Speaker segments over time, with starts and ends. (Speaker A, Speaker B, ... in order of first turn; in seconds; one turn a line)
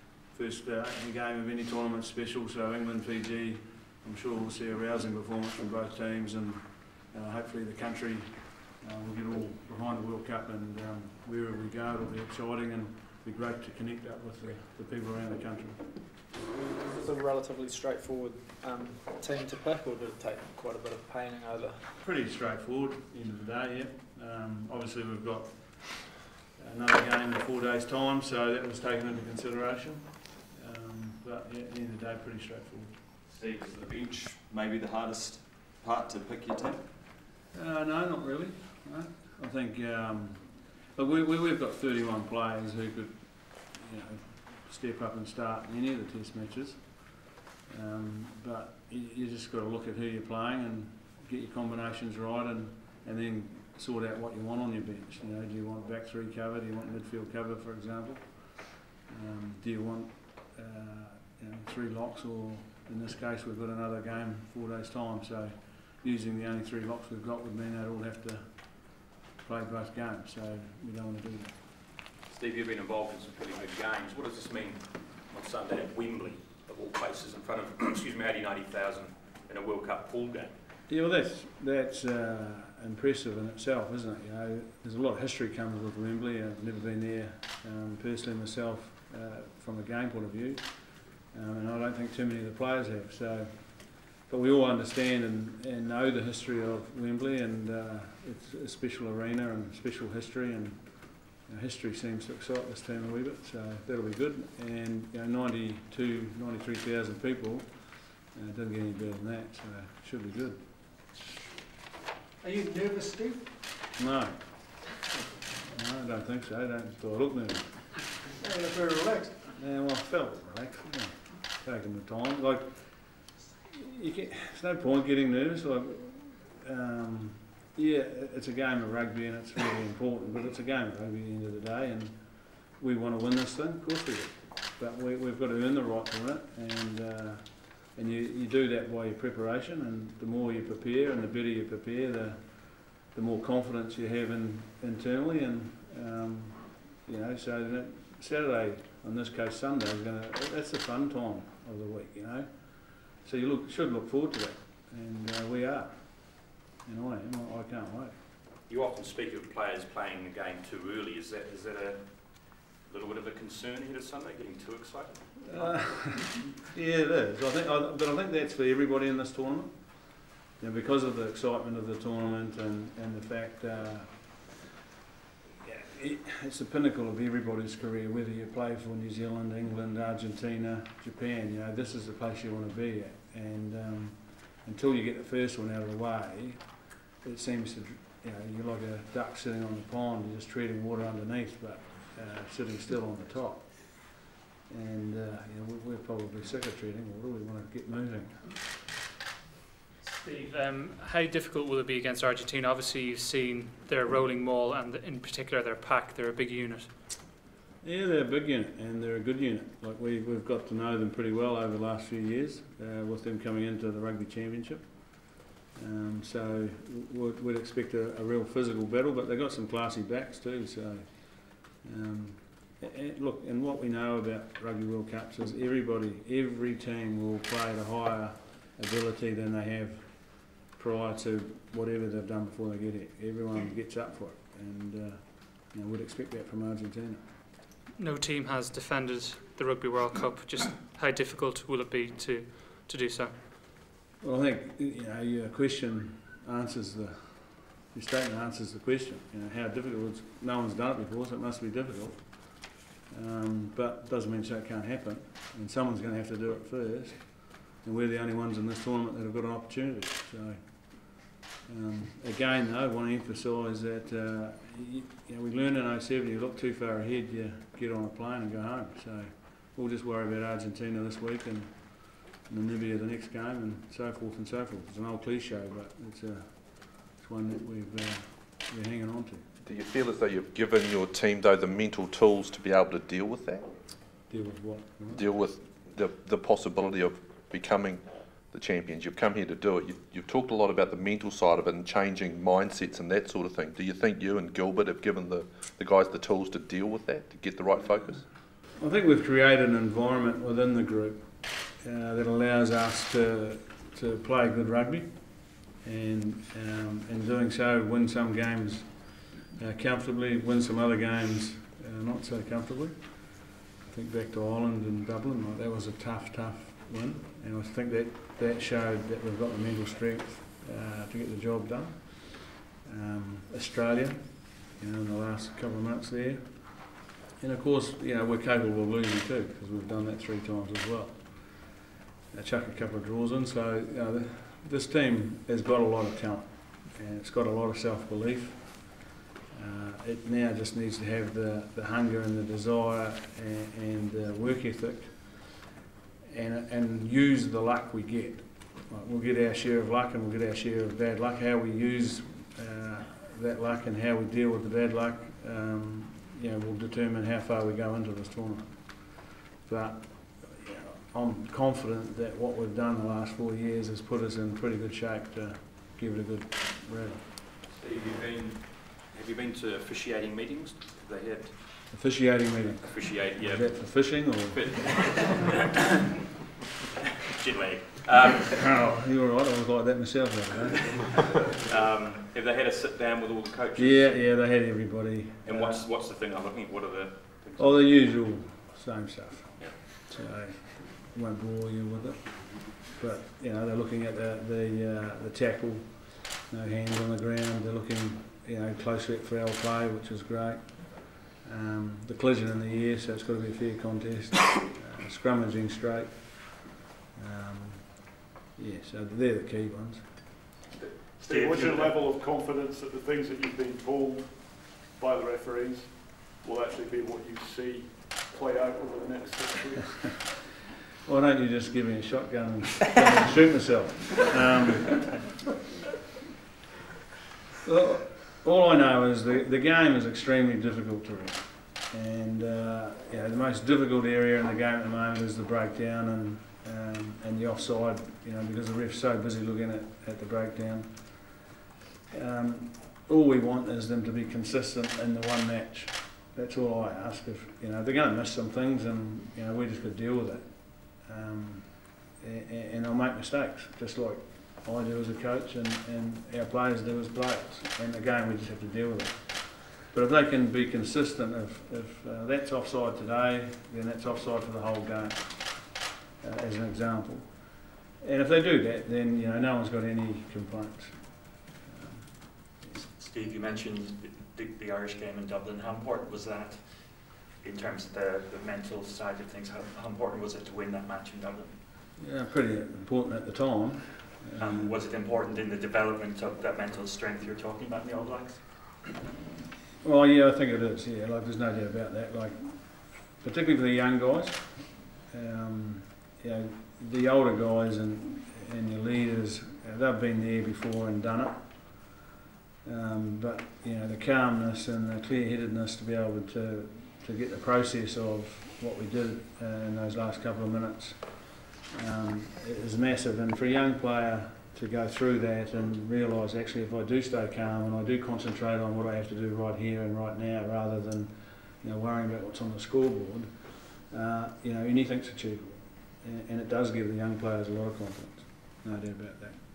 Speaker A: 0.3-15.8
Speaker B: 16.5-21.9
Speaker A: 22.0-33.0
Speaker C: 33.3-36.8
Speaker A: 37.5-71.5
Speaker D: 72.3-80.5
Speaker A: 80.9-110.6
Speaker E: 112.4-113.4
Speaker A: 114.0-114.6
Speaker A: 115.7-118.1
Speaker E: 118.4-119.3
Speaker A: 119.5-158.2
Speaker D: 158.7-166.5
Speaker A: 165.5-174.4
Speaker A: 175.6-198.6
Speaker F: 200.1-206.9
Speaker A: 207.8-237.2
Speaker F: 237.9-243.3
Speaker A: 244.2-279.4
Speaker G: 279.6-283.6
Speaker A: 284.3-285.2
Speaker G: 285.1-298.2
Speaker A: 298.8-331.8
Speaker A: 332.3-345.6
Speaker A: 346.3-367.3
Speaker D: 367.7-371.6
Speaker A: 371.9-374.7
Speaker D: 372.6-375.5
Speaker D: 377.3-378.5
Speaker A: 378.5-381.1
Speaker D: 381.6-384.5
Speaker A: 383.8-385.8
Speaker D: 385.4-388.1
Speaker A: 387.6-410.1
Speaker H: 411.1-420.3
Speaker I: 411.3-412.0
Speaker A: 421.0-425.2
Speaker A: 427.6-441.5
Speaker A: 442.1-472.2
Speaker I: 472.6-476.8
Speaker I: 477.4-481.5
Speaker A: 482.0-484.7
Speaker I: 484.4-488.4
Speaker A: 489.8-501.9
Speaker A: 502.6-529.4